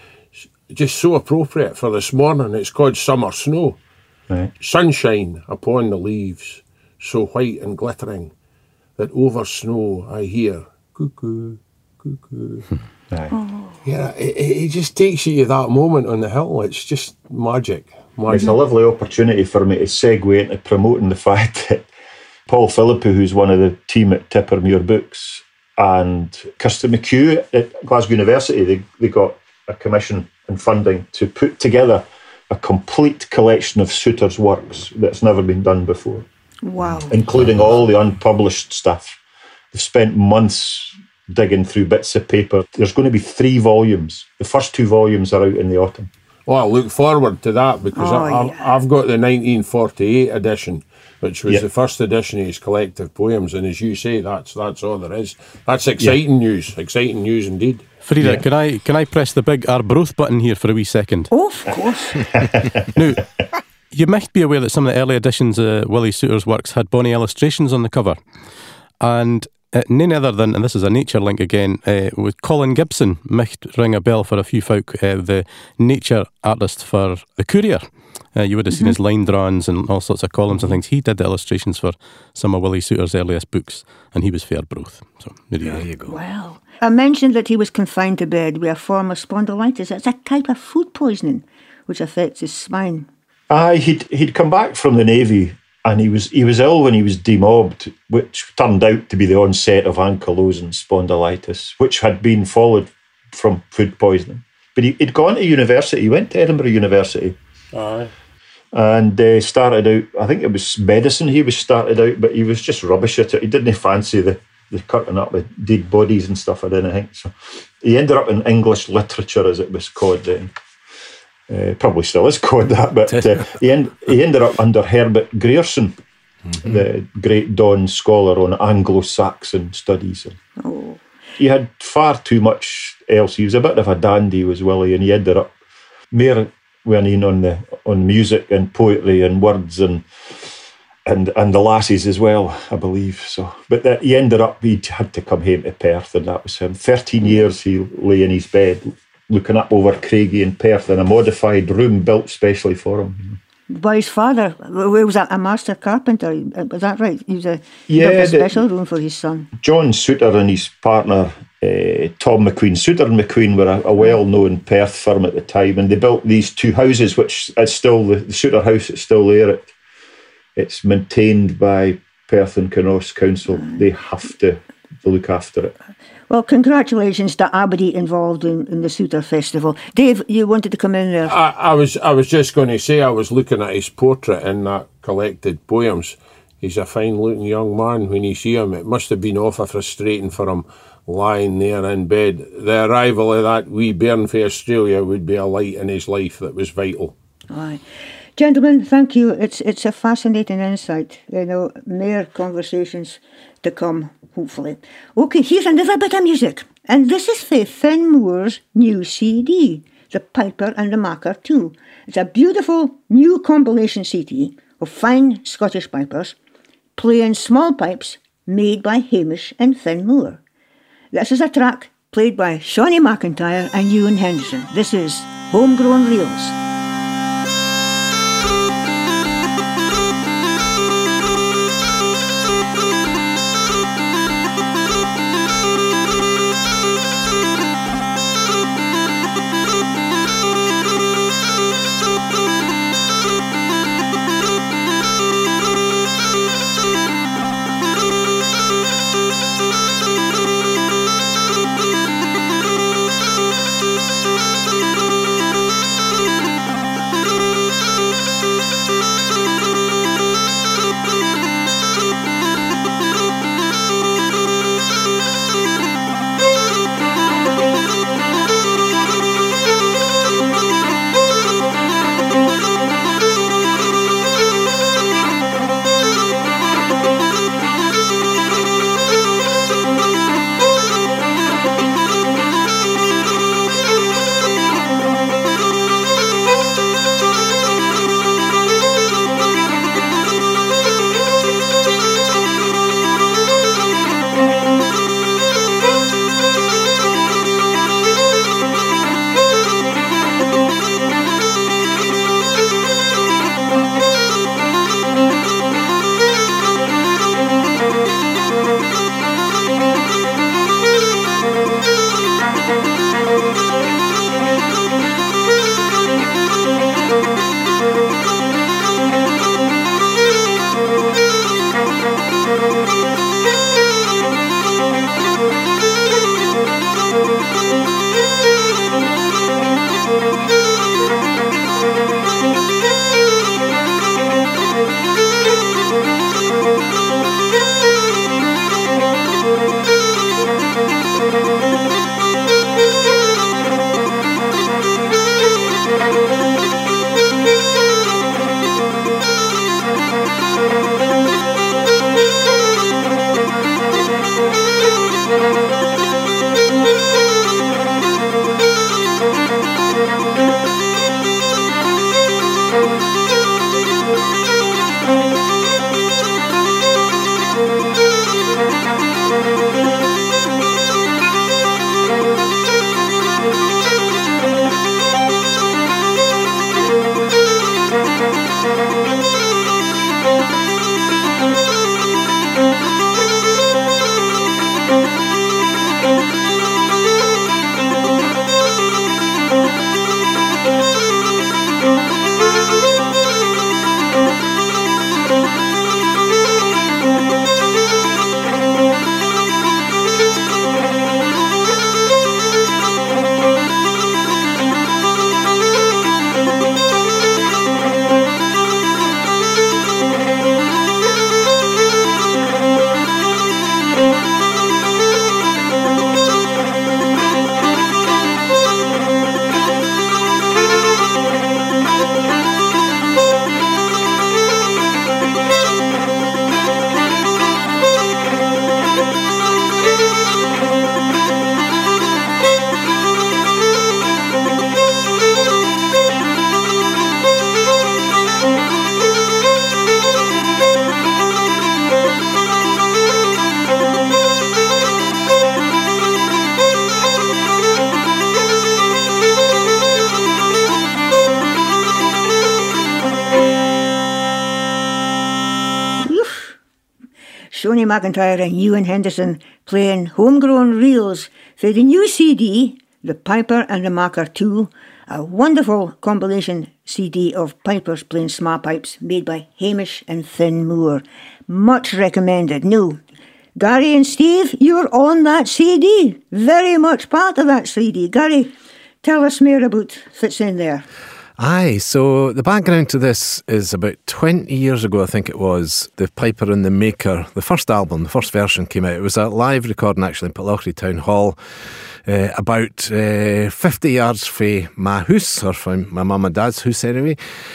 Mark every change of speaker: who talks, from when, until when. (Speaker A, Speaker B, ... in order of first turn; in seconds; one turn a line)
Speaker A: 0.3-3.8
Speaker A: 4.6-8.3
Speaker A: 9.0-12.7
Speaker B: 13.3-13.8
Speaker A: 13.8-18.5
Speaker C: 18.3-21.9
Speaker C: 22.5-36.2
Speaker B: 36.6-37.2
Speaker C: 37.1-39.2
Speaker C: 39.7-46.1
Speaker A: 46.5-57.8
Speaker B: 48.0-48.7
Speaker D: 58.0-61.3
Speaker B: 61.3-62.2
Speaker C: 62.2-62.9
Speaker D: 62.9-63.3
Speaker D: 63.9-68.2
Speaker D: 69.0-85.8
Speaker B: 78.7-79.0
Speaker E: 85.6-86.2
Speaker B: 86.1-93.1
Speaker C: 93.5-107.3
Speaker A: 107.7-108.1
Speaker C: 108.7-120.5
Speaker C: 121.5-126.0
Speaker C: 126.6-130.3
Speaker B: 130.6-131.0
Speaker C: 131.4-135.5
Speaker C: 136.1-140.1
Speaker C: 141.1-153.4
Speaker B: 153.7-159.5
Speaker C: 157.9-158.6
Speaker C: 159.6-169.7
Speaker C: 170.6-175.7
Speaker B: 176.3-181.3
Speaker A: 181.2-197.1
Speaker B: 197.5-197.8
Speaker B: 198.4-216.3
Speaker B: 217.0-220.4
Speaker B: 221.1-226.6
Speaker B: 456.0-456.6
Speaker B: 457.5-473.0
Speaker B: 473.6-480.9
Speaker E: 481.4-491.4
Speaker E: 492.0-497.2